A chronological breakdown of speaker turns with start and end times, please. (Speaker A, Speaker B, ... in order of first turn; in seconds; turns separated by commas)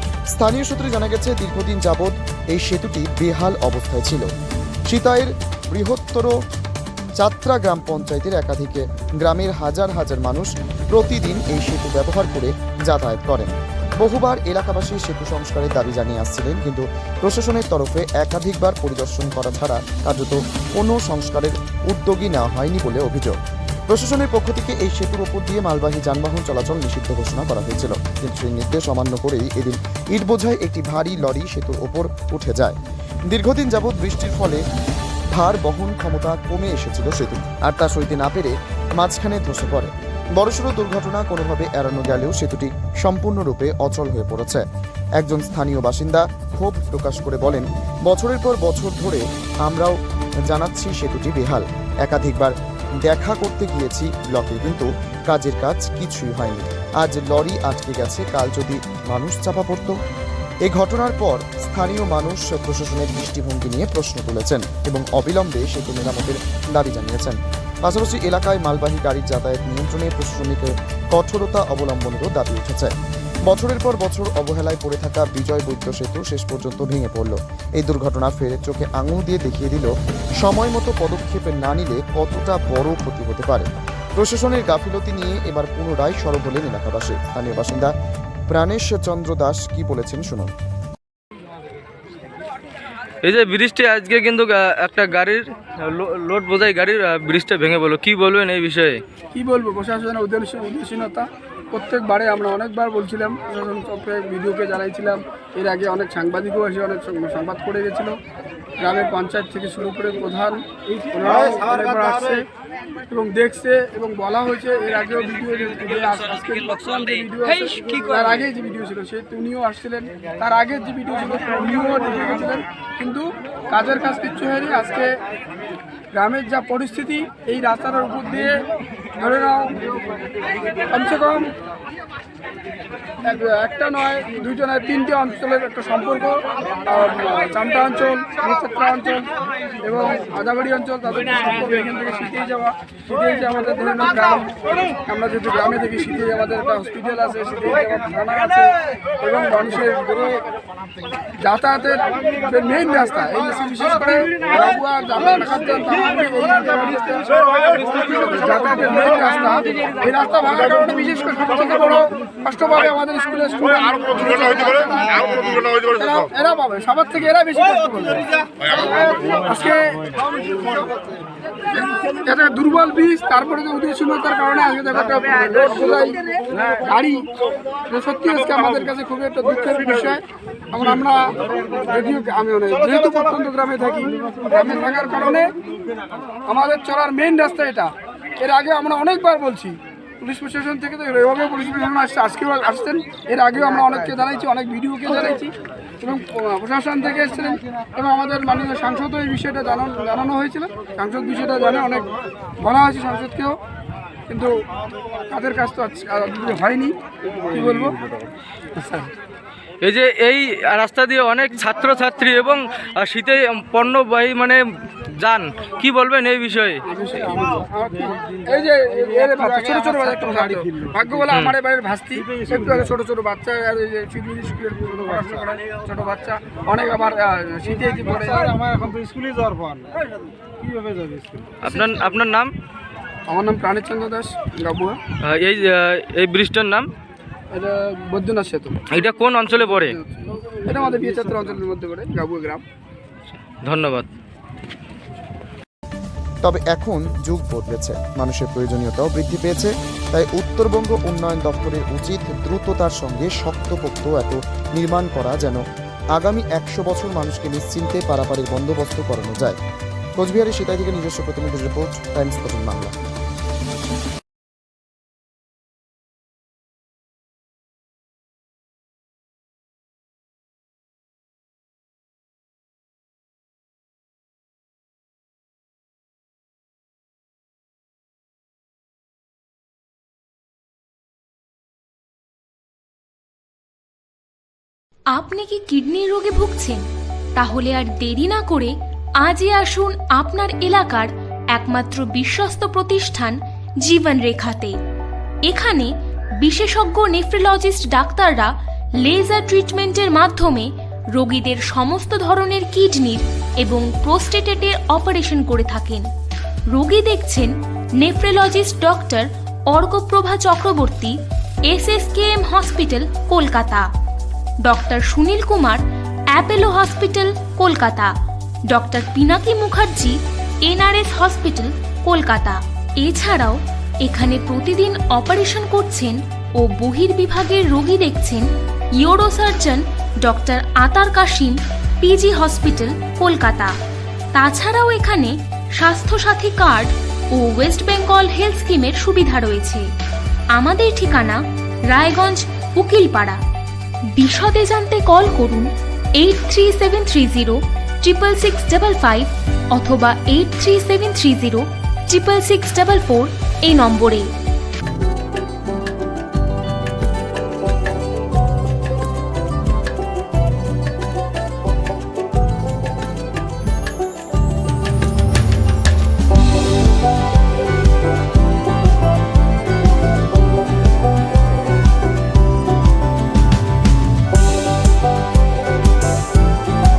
Speaker A: 0.3-4.3, Speaker A: 4.9-6.3, Speaker A: 7.2-23.4, Speaker A: 23.9-32.8, Speaker A: 33.3-34.6, Speaker A: 35.3-44.6, Speaker A: 45.2-52.5, Speaker A: 53.0-59.9, Speaker A: 60.6-72.9, Speaker A: 73.5-79.9, Speaker A: 80.4-87.9, Speaker A: 88.5-90.5, Speaker B: 93.2-99.0, Speaker C: 99.3-108.1, Speaker C: 108.8-110.6, Speaker C: 111.1-112.4, Speaker C: 113.1-115.6, Speaker D: 115.7-116.0, Speaker C: 116.3-125.1, Speaker C: 126.2-128.5, Speaker C: 129.2-129.7, Speaker C: 130.9-131.4, Speaker C: 133.3-139.2, Speaker C: 139.8-144.5, Speaker C: 145.1-150.1, Speaker C: 151.4-169.9, Speaker D: 164.8-165.1, Speaker D: 165.8-166.2, Speaker C: 171.7-176.3, Speaker C: 176.9-177.2, Speaker C: 177.9-180.2, Speaker C: 180.7-181.3, Speaker C: 181.8-185.5, Speaker D: 183.0-184.5, Speaker C: 186.5-187.9, Speaker C: 188.4-195.5, Speaker C: 196.0-202.1, Speaker C: 202.6-203.5, Speaker C: 205.3-206.9, Speaker D: 207.5-207.9, Speaker C: 207.6-207.9, Speaker B: 209.8-214.6, Speaker B: 215.2-216.8, Speaker D: 216.9-222.9, Speaker C: 217.8-228.6, Speaker B: 221.3-221.6, Speaker D: 224.8-225.5, Speaker D: 227.8-228.9, Speaker B: 231.6-232.5, Speaker C: 233.3-234.9, Speaker D: 233.8-234.1, Speaker B: 235.2-236.9, Speaker C: 237.6-238.7, Speaker B: 238.9-240.0, Speaker C: 240.7-242.6, Speaker D: 240.9-241.3, Speaker B: 243.3-244.1, Speaker A: 246.4-255.6, Speaker A: 256.1-259.6, Speaker A: 260.1-262.9, Speaker E: 285.1-294.8, Speaker E: 295.4-306.1, Speaker E: 306.7-311.2, Speaker E: 311.7-313.9, Speaker E: 314.6-318.1, Speaker E: 318.7-333.7, Speaker E: 334.3-339.9, Speaker E: 340.5-343.4, Speaker E: 344.1-354.3